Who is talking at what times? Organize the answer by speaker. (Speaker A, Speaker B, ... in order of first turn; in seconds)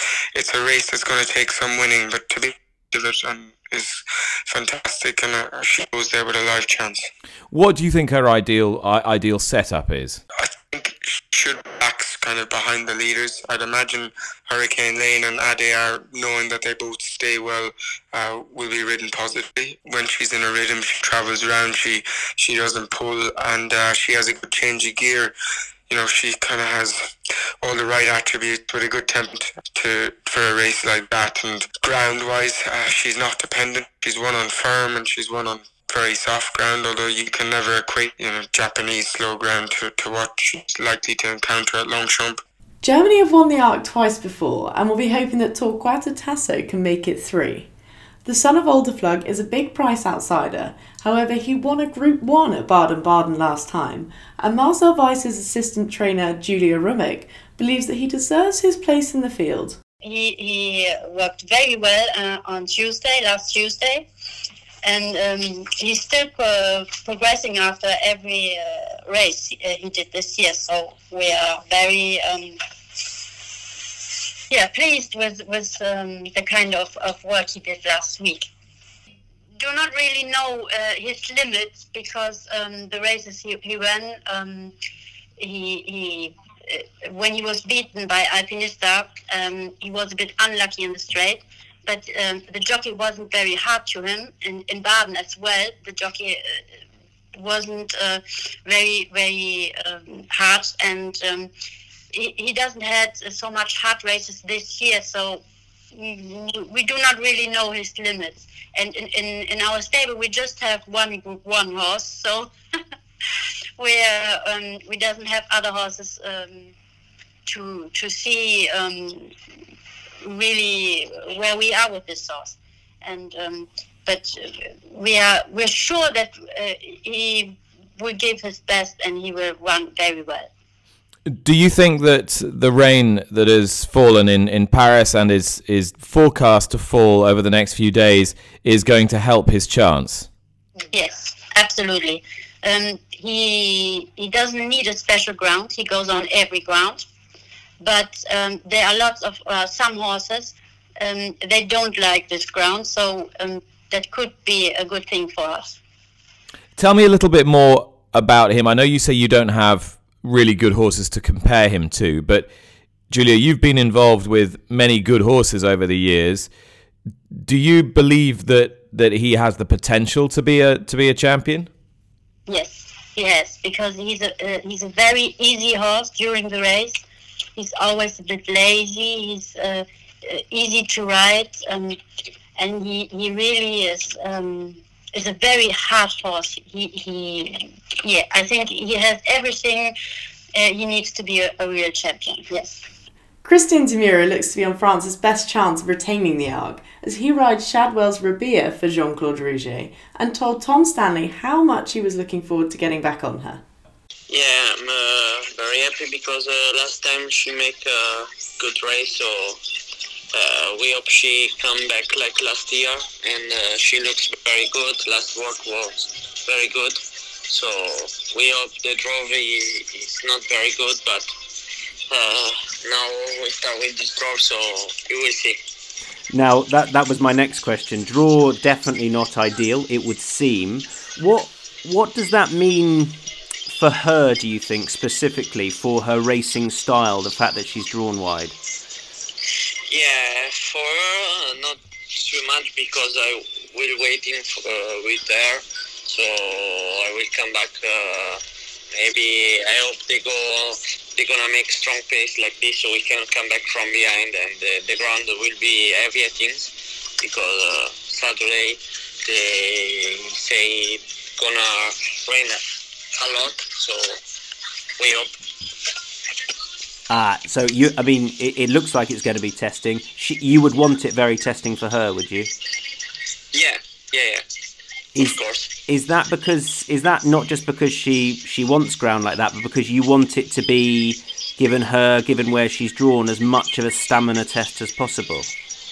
Speaker A: 0.3-7.1, 10.4-25.3, 25.9-27.0, 27.6-42.4
Speaker B: 7.5-10.2, 131.3-140.3, 156.8-162.5, 163.1-166.5, 167.3-171.7
Speaker C: 42.8-47.7, 48.2-59.8, 193.4-203.6
Speaker D: 60.0-64.0, 64.8-72.6, 74.5-78.5, 79.6-84.7, 85.4-96.7, 97.3-101.5, 102.1-105.4, 105.9-112.5, 113.8-116.7, 117.5-119.3, 120.2-130.5, 140.9-147.0, 147.8-155.8, 172.5-177.0, 177.6-182.0, 182.6-189.9, 190.5-192.8
Speaker E: 204.3-209.6, 210.3-221.3, 222.1-225.6, 239.9-248.4, 248.9-262.6, 263.2-264.0, 265.0-265.3, 273.5-274.4, 275.2-275.8
Speaker F: 226.3-238.5, 267.1-272.5, 275.1-285.5